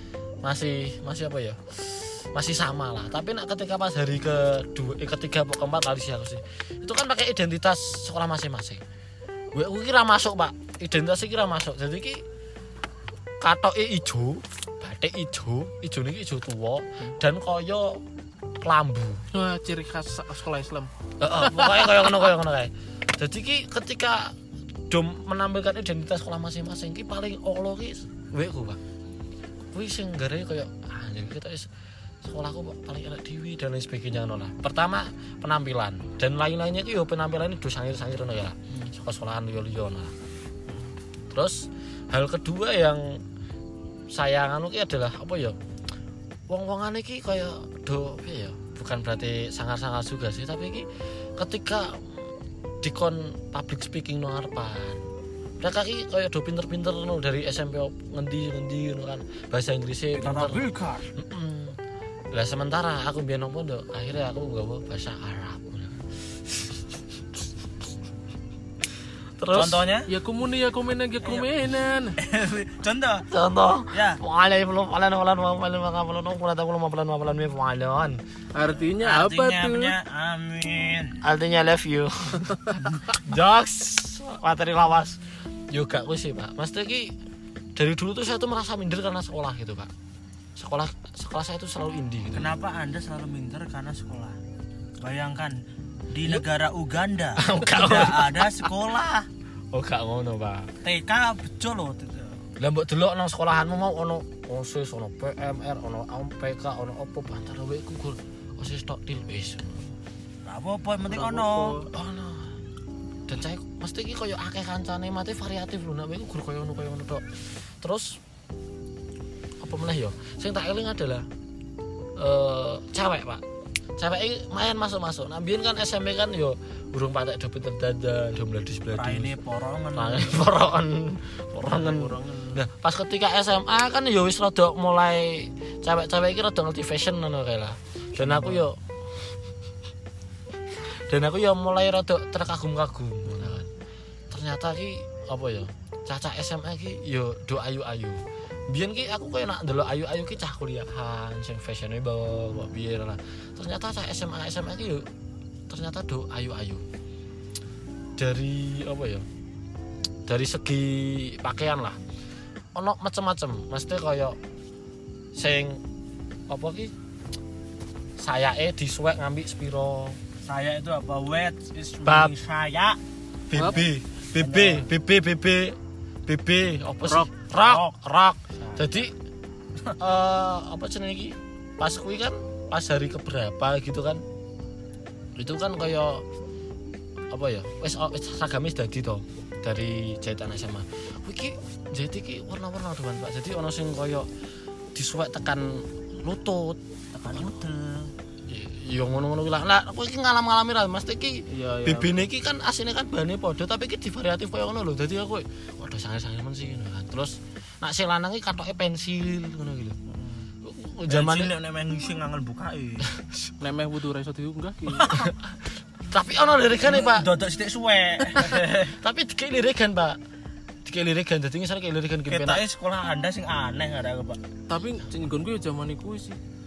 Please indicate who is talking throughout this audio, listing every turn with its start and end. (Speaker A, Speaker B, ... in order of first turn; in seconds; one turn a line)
Speaker A: 0.4-8.8
Speaker A: 9.5-12.2
Speaker A: 13.4-18.0
Speaker A: 18.6-19.2
Speaker B: 19.3-20.9
Speaker A: 21.2-24.3
Speaker B: 21.4-22.2
Speaker A: 24.9-28.8
Speaker A: 29.7-31.7
Speaker A: 32.2-40.1
Speaker A: 41.3-43.2
Speaker A: 44.1-45.5
Speaker A: 46.5-50.9
Speaker A: 51.4-52.1
Speaker A: 52.8-55.0
Speaker A: 55.6-61.8
Speaker C: 60.1-61.1
Speaker A: 62.3-66.0
Speaker A: 69.4-69.8
Speaker C: 69.5-70.1
Speaker B: 70.1-72.2
Speaker C: 71.2-71.5
Speaker C: 72.2-73.3
Speaker A: 73.3-78.2
Speaker C: 73.9-74.2
Speaker B: 78.5-80.0
Speaker C: 79.0-81.2
Speaker A: 81.2-85.2
Speaker A: 85.7-87.1
Speaker A: 87.8-89.9
Speaker A: 90.5-92.5
Speaker C: 92.3-94.4
Speaker C: 95.0-99.3
Speaker A: 97.4-98.7
Speaker A: 99.7-100.7
Speaker C: 100.8-102.4
Speaker A: 102.6-109.8
Speaker C: 110.5-111.8
Speaker B: 111.1-111.9
Speaker A: 111.9-112.6
Speaker A: 113.3-117.2
Speaker A: 117.8-118.2
Speaker A: 119.6-121.3
Speaker A: 122.2-123.4
Speaker A: 124.0-129.3
Speaker C: 128.9-130.5
Speaker A: 129.9-138.8
Speaker B: 131.7-132.6
Speaker B: 138.2-138.6
Speaker A: 140.8-143.7
Speaker A: 144.3-148.2
Speaker A: 148.7-155.1
Speaker A: 155.7-156.8
Speaker A: 158.2-159.2
Speaker A: 160.3-162.0
Speaker A: 162.7-164.4
Speaker A: 165.3-165.8
Speaker A: 166.5-166.9
Speaker A: 168.2-170.2
Speaker C: 170.5-173.0
Speaker A: 172.0-172.3
Speaker A: 173.5-179.1
Speaker B: 173.5-173.9
Speaker C: 174.3-174.9
Speaker C: 177.0-178.0
Speaker C: 178.5-179.1
Speaker A: 180.0-184.2
Speaker A: 185.4-186.2
Speaker A: 187.3-194.3
Speaker A: 194.9-196.8
Speaker C: 197.1-198.1
Speaker A: 198.5-210.0
Speaker B: 201.5-202.2
Speaker B: 210.1-210.4
Speaker A: 210.6-211.5
Speaker C: 211.1-213.1
Speaker A: 213.2-213.5
Speaker B: 213.6-215.2
Speaker C: 214.9-215.3
Speaker A: 216.1-217.3
Speaker C: 216.8-218.9
Speaker A: 218.6-220.2
Speaker A: 220.8-222.6
Speaker C: 222.3-224.4
Speaker B: 224.7-226.4